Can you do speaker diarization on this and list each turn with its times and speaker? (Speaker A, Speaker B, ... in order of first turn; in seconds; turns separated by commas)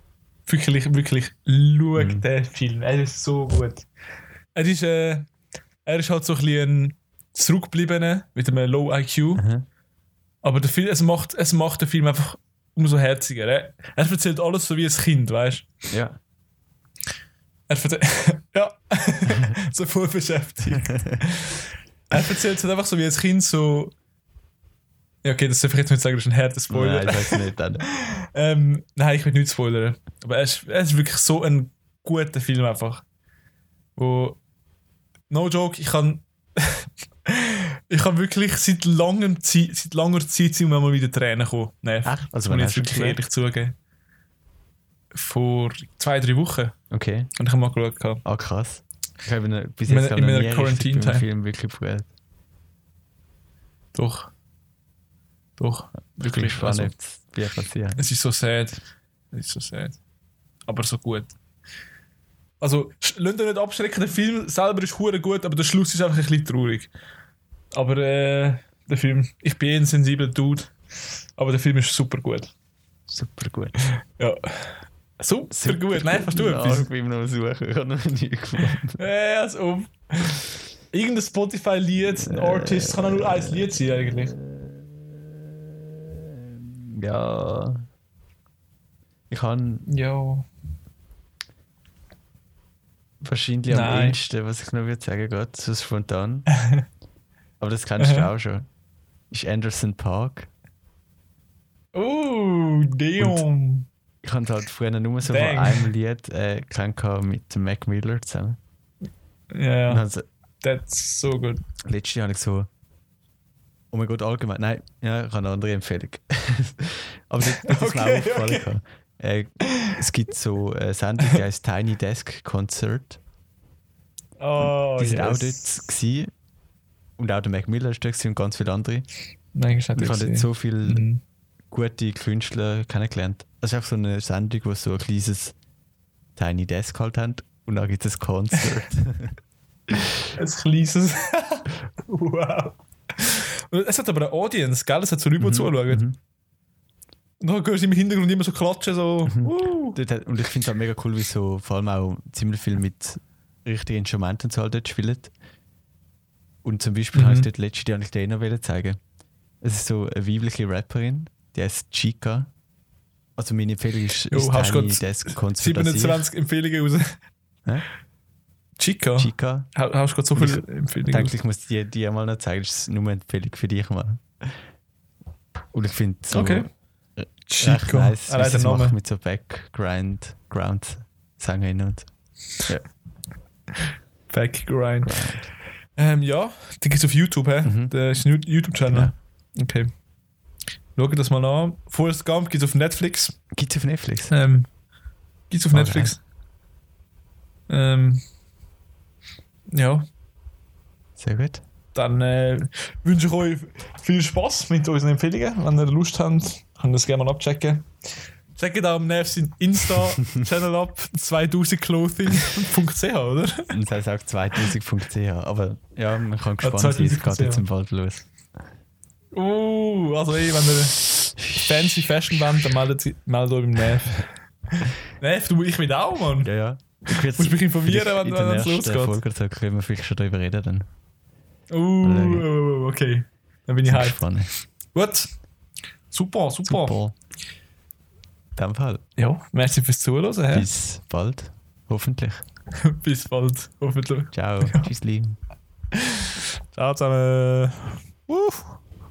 Speaker A: 0.5-3.9, Speaker B: 1.9-2.2, Speaker A: 4.5-5.3, Speaker A: 5.8-9.4, Speaker B: 9.4-9.7, Speaker A: 10.4-15.7, Speaker B: 15.9-16.2, Speaker A: 17.7-23.9, Speaker B: 20.7-21.2, Speaker A: 25.2-33.0, Speaker B: 26.7-27.9, Speaker A: 34.0-34.4, Speaker A: 35.3-43.8, Speaker B: 42.0-43.2, Speaker A: 45.1-46.7, Speaker B: 46.9-47.3, Speaker A: 47.4-48.2, Speaker B: 48.2-52.1, Speaker A: 49.9-51.2, Speaker A: 53.9-54.3, Speaker A: 55.6-56.9, Speaker B: 56.1-58.0, Speaker A: 58.0-58.8, Speaker A: 59.3-60.0, Speaker A: 60.6-61.3, Speaker A: 62.6-66.9, Speaker A: 67.7-70.7, Speaker A: 71.4-72.5, Speaker B: 73.1-73.8, Speaker A: 73.9-76.9, Speaker B: 75.5-79.0, Speaker A: 79.0-84.3, Speaker B: 82.2-83.7, Speaker B: 84.5-84.8, Speaker B: 86.5-87.9, Speaker B: 89.3-89.9, Speaker A: 89.8-90.5, Speaker B: 93.2-96.5, Speaker A: 93.7-94.2, Speaker A: 96.5-96.8, Speaker B: 97.6-98.7, Speaker A: 98.0-98.3, Speaker B: 99.3-100.5, Speaker A: 101.9-103.9, Speaker B: 104.2-108.6, Speaker A: 105.2-105.9, Speaker A: 109.5-110.0, Speaker B: 109.9-110.2, Speaker A: 110.6-111.6, Speaker B: 111.8-112.7, Speaker B: 113.9-123.2, Speaker A: 117.5-118.7, Speaker A: 124.4-125.7, Speaker B: 124.6-126.3, Speaker B: 127.2-129.1, Speaker A: 129.5-131.2, Speaker B: 129.9-131.1, Speaker B: 131.7-135.5, Speaker B: 136.3-139.3, Speaker B: 139.9-140.3, Speaker A: 140.3-146.0, Speaker B: 145.4-146.2, Speaker A: 147.4-150.0, Speaker B: 149.3-155.3, Speaker B: 156.6-159.0, Speaker A: 157.1-157.5, Speaker B: 159.6-162.5, Speaker B: 163.4-166.2, Speaker A: 164.3-167.2, Speaker A: 168.8-171.3, Speaker B: 169.2-169.7, Speaker B: 170.3-174.6, Speaker B: 175.7-182.1, Speaker A: 176.3-176.7, Speaker A: 177.5-178.9, Speaker B: 182.6-182.9, Speaker A: 183.7-185.3, Speaker B: 185.0-185.5, Speaker A: 185.9-189.9, Speaker B: 187.6-187.9, Speaker B: 188.9-189.1, Speaker A: 190.9-193.4, Speaker B: 193.5-194.3, Speaker A: 194.3-194.7, Speaker A: 195.5-196.2, Speaker B: 195.7-196.1, Speaker A: 197.7-198.2, Speaker A: 199.7-200.1, Speaker B: 201.2-201.6, Speaker A: 201.9-207.9, Speaker A: 208.5-213.7, Speaker B: 213.7-218.3, Speaker A: 216.6-217.6, Speaker A: 219.3-226.5, Speaker B: 226.4-230.9, Speaker A: 227.1-229.2, Speaker A: 231.7-235.3, Speaker B: 232.0-232.4, Speaker B: 233.8-234.5, Speaker A: 236.1-236.9, Speaker B: 236.6-237.1, Speaker B: 238.6-239.0, Speaker A: 239.2-240.7, Speaker B: 240.5-242.4, Speaker A: 242.7-244.9, Speaker B: 244.3-245.4, Speaker A: 245.9-248.7